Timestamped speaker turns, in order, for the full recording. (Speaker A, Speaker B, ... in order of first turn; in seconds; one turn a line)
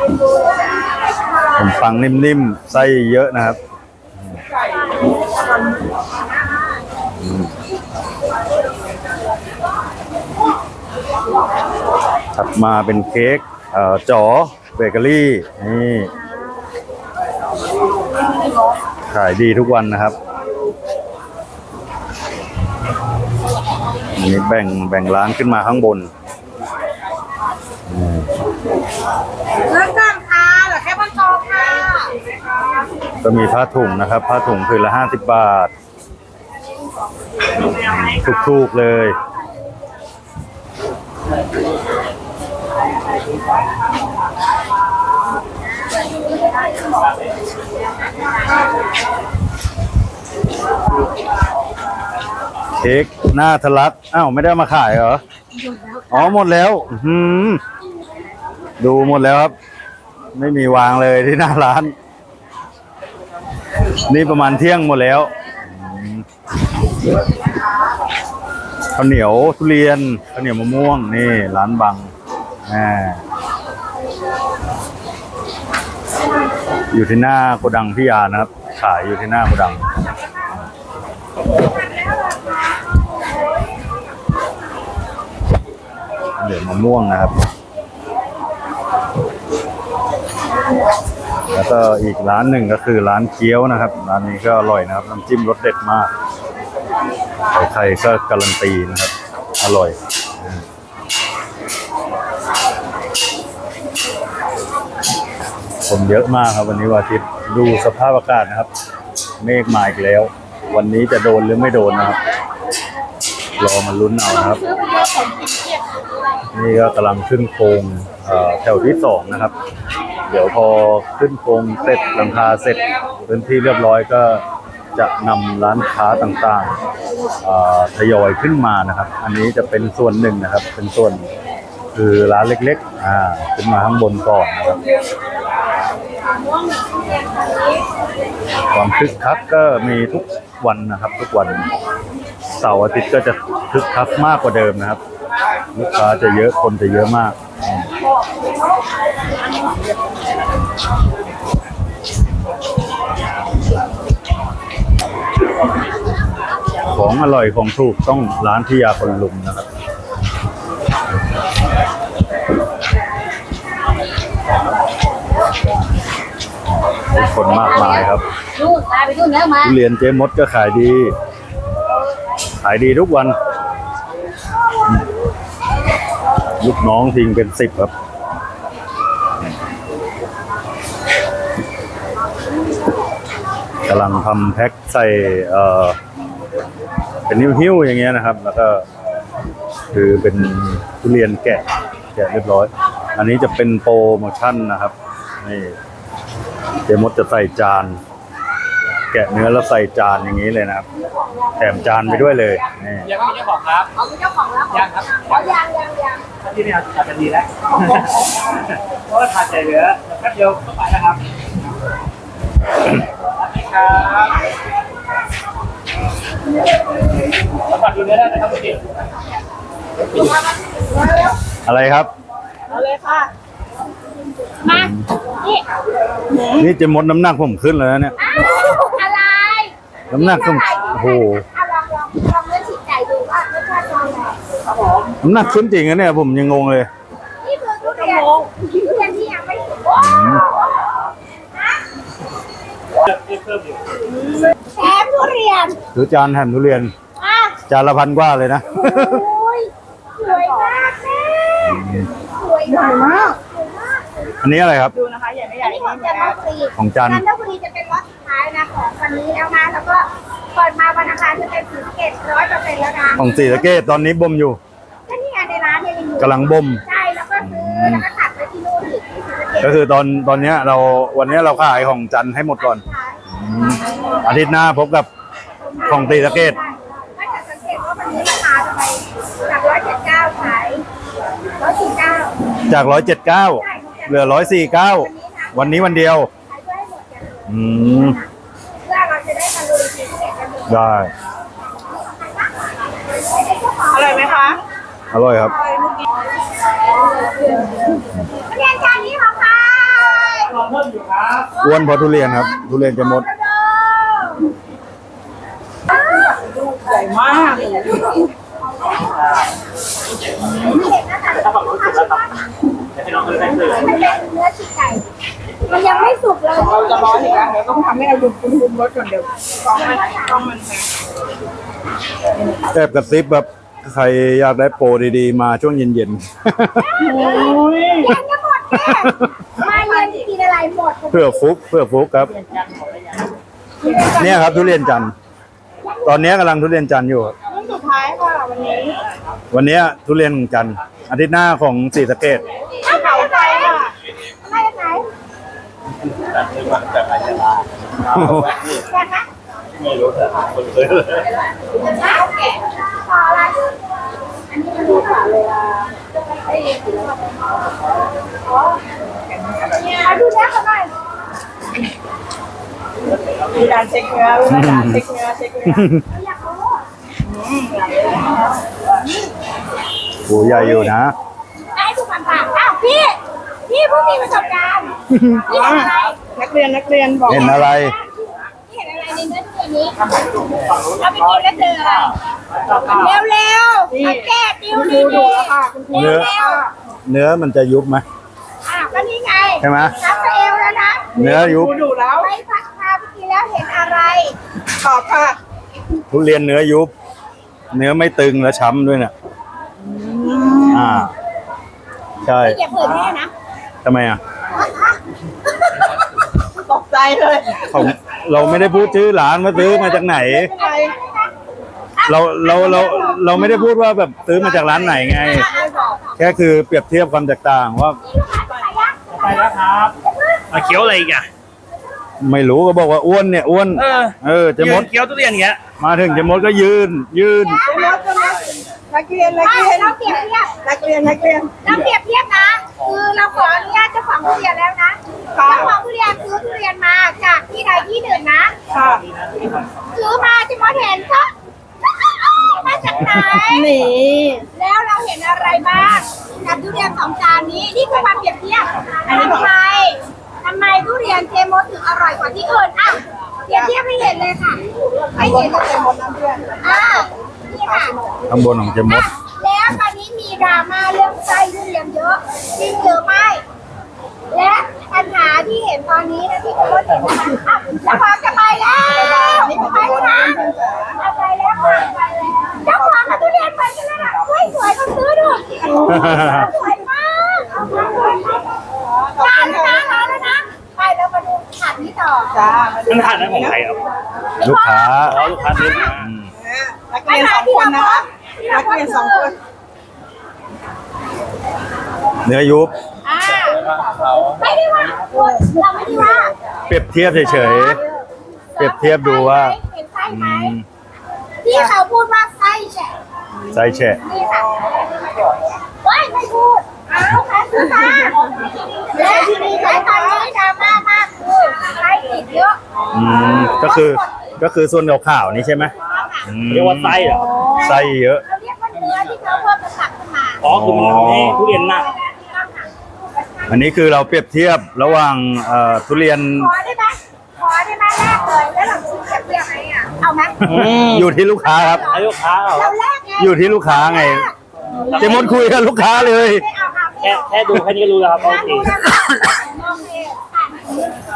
Speaker A: 1.6-3.6
Speaker A: 7.2-7.5
Speaker A: 12.3-16.1
Speaker A: 19.1-20.2
Speaker A: 24.1-26.1
Speaker A: 27.9-28.3
Speaker B: 29.7-32.1
Speaker A: 33.2-35.7
Speaker A: 37.7-39.2
Speaker A: 52.8-55.2
Speaker A: 56.1-57.6
Speaker A: 58.8-59.5
Speaker A: 60.4-61.9
Speaker A: 64.1-66.3
Speaker A: 69.0-72.1
Speaker A: 72.7-73.2
Speaker A: 76.9-79.9
Speaker A: 86.4-87.4
Speaker A: 91.5-96.1
Speaker A: 97.5-100.7
Speaker A: 105.9-108.7
Speaker A: 109.4-112.2
Speaker A: 113.6-114.6
Speaker C: 114.7-115.5
Speaker A: 116.5-119.5
Speaker A: 120.3-124.4
Speaker A: 125.0-126.7
Speaker A: 127.4-131.3
Speaker A: 131.9-134.8
Speaker A: 138.7-141.7
Speaker A: 142.5-145.0
Speaker A: 145.7-147.8
Speaker A: 156.8-159.7
Speaker A: 167.1-168.2
Speaker B: 167.2-169.6
Speaker A: 169.6-171.1
Speaker A: 172.6-173.3
Speaker A: 176.6-177.9
Speaker A: 183.9-186.0
Speaker A: 187.3-188.8
Speaker A: 189.9-195.8
Speaker A: 196.9-198.0
Speaker A: 199.1-200.9
Speaker A: 201.6-203.1
Speaker D: 203.1-203.9
Speaker B: 204.0-206.2
Speaker D: 204.7-205.5
Speaker D: 206.4-208.0
Speaker D: 208.9-211.2
Speaker D: 213.5-214.3
Speaker D: 217.7-218.8
Speaker A: 221.7-222.1
Speaker C: 222.7-223.3
Speaker B: 224.7-224.9
Speaker A: 224.8-225.1
Speaker C: 226.3-226.7
Speaker A: 226.6-228.2
Speaker B: 228.2-234.4
Speaker A: 230.1-231.4
Speaker A: 235.2-236.9
Speaker B: 237.4-240.9
Speaker A: 240.0-240.4
Speaker D: 243.3-243.6
Speaker C: 244.2-244.5
Speaker B: 244.8-245.8
Speaker A: 245.9-246.9
Speaker B: 247.2-247.6
Speaker A: 247.7-249.2
Speaker B: 249.0-254.1
Speaker C: 250.4-250.7
Speaker A: 251.6-252.1
Speaker C: 252.7-253.4
Speaker A: 254.4-254.9
Speaker C: 254.9-256.4
Speaker B: 255.6-263.6
Speaker A: 256.8-257.2
Speaker A: 263.2-264.6
Speaker B: 265.1-269.8
Speaker A: 266.2-266.8
Speaker A: 267.4-268.1
Speaker A: 269.6-275.1
Speaker B: 271.2-271.9
Speaker B: 272.6-273.2
Speaker B: 273.9-274.2
Speaker B: 275.7-280.8
Speaker A: 275.8-276.6
Speaker B: 281.6-282.4
Speaker A: 282.7-286.3
Speaker B: 283.6-288.3
Speaker A: 287.5-288.2
Speaker B: 288.8-290.9
Speaker A: 290.7-291.1
Speaker B: 291.9-292.5
Speaker B: 293.2-294.6
Speaker C: 293.9-294.6
Speaker A: 295.1-295.6
Speaker B: 295.6-295.9
Speaker B: 298.5-300.5
Speaker A: 301.6-303.3
Speaker B: 301.7-304.5
Speaker C: 306.8-308.2
Speaker B: 310.6-312.4
Speaker D: 311.4-312.2
Speaker D: 312.9-313.8
Speaker B: 313.7-315.1
Speaker B: 315.7-317.4
Speaker C: 316.6-320.9
Speaker B: 319.7-320.4
Speaker A: 322.7-327.1
Speaker B: 326.9-331.3
Speaker C: 327.1-328.1
Speaker D: 327.6-328.0
Speaker A: 328.8-329.4
Speaker A: 331.1-332.4
Speaker C: 333.8-335.0
Speaker A: 334.1-335.1
Speaker A: 336.1-337.3
Speaker C: 337.5-339.1
Speaker A: 339.5-342.4
Speaker C: 342.9-343.9
Speaker B: 342.9-343.9
Speaker B: 344.5-345.1
Speaker A: 348.0-348.6
Speaker B: 348.8-349.3
Speaker B: 352.0-353.6
Speaker B: 354.5-355.9
Speaker B: 356.5-357.0
Speaker B: 359.7-360.9
Speaker C: 363.5-365.9
Speaker A: 364.5-365.1
Speaker A: 365.6-366.1
Speaker B: 366.2-366.6
Speaker C: 367.2-368.1
Speaker A: 370.2-371.1
Speaker C: 370.6-370.9
Speaker B: 371.8-375.0
Speaker A: 375.1-375.5
Speaker B: 375.5-376.3
Speaker C: 375.5-377.6
Speaker A: 377.3-378.0
Speaker B: 377.3-378.1
Speaker B: 378.7-380.0
Speaker B: 380.9-382.2
Speaker B: 382.9-386.6
Speaker C: 383.9-386.7
Speaker A: 385.9-386.3
Speaker A: 387.1-388.0
Speaker B: 388.7-391.2
Speaker A: 389.6-390.0
Speaker A: 391.2-391.8
Speaker C: 391.2-392.3
Speaker B: 392.2-394.4
Speaker C: 394.8-395.4
Speaker A: 396.1-396.9
Speaker A: 397.7-399.1
Speaker C: 399.9-401.0
Speaker A: 400.7-401.1
Speaker A: 402.2-402.6
Speaker B: 402.5-403.3
Speaker A: 403.8-404.2
Speaker C: 406.5-407.9
Speaker A: 407.6-410.5
Speaker C: 409.5-410.9
Speaker B: 409.8-411.3
Speaker B: 412.0-413.6
Speaker A: 412.0-415.5
Speaker C: 414.6-415.0
Speaker B: 414.8-416.1
Speaker C: 415.6-416.0
Speaker A: 416.2-418.0
Speaker B: 418.1-419.5
Speaker D: 419.1-420.0
Speaker B: 420.1-420.8
Speaker D: 420.5-421.3
Speaker A: 422.2-424.9
Speaker D: 423.8-425.6
Speaker A: 425.8-427.6
Speaker B: 427.5-428.4
Speaker C: 427.6-431.6
Speaker B: 429.4-430.6
Speaker B: 431.6-438.6
Speaker C: 435.4-435.7
Speaker C: 438.7-439.1
Speaker B: 439.9-441.3
Speaker B: 441.8-443.7
Speaker C: 443.4-444.5
Speaker B: 444.5-454.6
Speaker C: 449.1-449.5
Speaker C: 455.1-457.1
Speaker B: 455.2-455.9
Speaker B: 456.6-458.0
Speaker C: 457.6-458.2
Speaker A: 458.3-459.1
Speaker B: 458.9-463.4
Speaker B: 464.3-470.4
Speaker C: 468.9-471.0
Speaker B: 471.0-478.0
Speaker C: 472.8-473.3
Speaker C: 475.6-476.4
Speaker A: 475.8-476.5
Speaker C: 477.6-477.9
Speaker C: 479.0-480.3
Speaker B: 479.2-482.4
Speaker C: 482.3-483.6
Speaker D: 482.9-483.8
Speaker A: 484.4-485.3
Speaker B: 484.5-485.9
Speaker D: 485.0-486.1
Speaker A: 485.9-486.3
Speaker C: 486.4-489.4
Speaker B: 487.1-489.4
Speaker A: 492.2-492.7
Speaker B: 493.1-493.6
Speaker D: 493.7-494.3
Speaker B: 494.4-496.3
Speaker A: 496.7-497.8
Speaker B: 497.3-498.0
Speaker B: 498.6-500.5
Speaker A: 498.6-500.6
Speaker B: 501.4-502.9
Speaker A: 503.5-504.0
Speaker C: 503.6-504.0
Speaker B: 504.0-504.8
Speaker B: 505.8-512.6
Speaker C: 509.0-510.1
Speaker A: 512.9-515.7
Speaker B: 513.5-514.0
Speaker B: 515.9-516.3
Speaker A: 516.2-518.2
Speaker D: 516.5-517.4
Speaker B: 517.2-520.5
Speaker D: 520.4-521.9
Speaker A: 520.4-521.4
Speaker B: 521.5-523.6
Speaker A: 523.5-526.5
Speaker B: 526.3-530.5
Speaker A: 530.4-531.9
Speaker D: 530.4-531.1
Speaker B: 531.5-534.3
Speaker D: 531.9-532.7
Speaker A: 533.2-534.3
Speaker A: 534.9-536.5
Speaker D: 535.0-535.2
Speaker B: 535.1-540.8
Speaker D: 537.0-538.7